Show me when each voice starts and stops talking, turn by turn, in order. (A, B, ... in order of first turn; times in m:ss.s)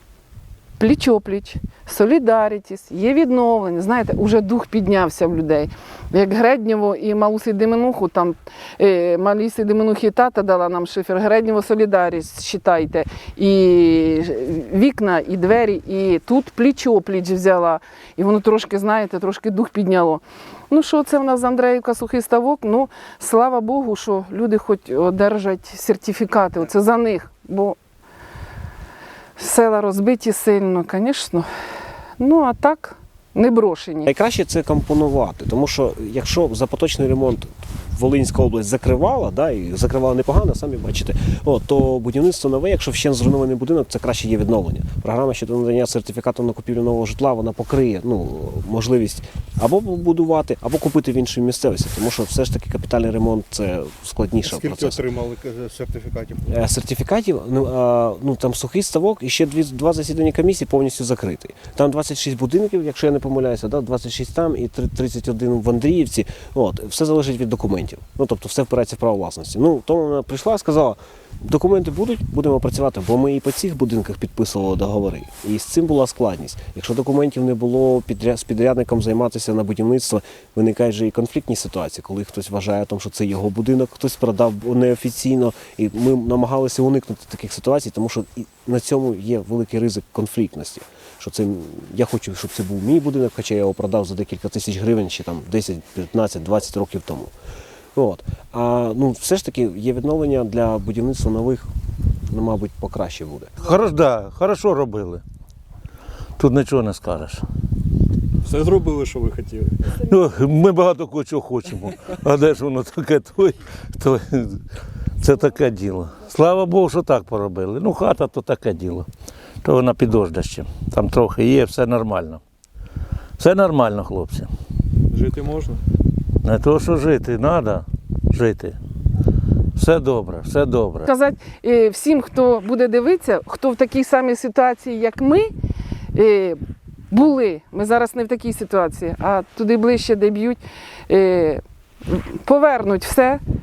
0:00.8-0:27.8 A
0:29.4-0:31.5 A
0:32.2-0:34.1 A
0:34.1-0:55.0 B
0:54.4-0:56.4 C
0:56.5-1:37.3 B
1:38.0-1:41.7 B
1:42.3-1:43.5 B
1:43.6-1:45.2 D
1:46.4-1:47.4 D
1:48.4-1:49.8 E
1:50.1-1:54.6 D
1:55.2-1:59.1 D
1:59.6-2:02.4 D
2:03.4-2:04.5 D
2:05.1-2:05.8 E
2:06.4-2:08.8 D
2:09.8-2:11.1 D
2:11.0-2:15.5 A
2:16.2-2:16.6 A
2:17.1-2:23.4 A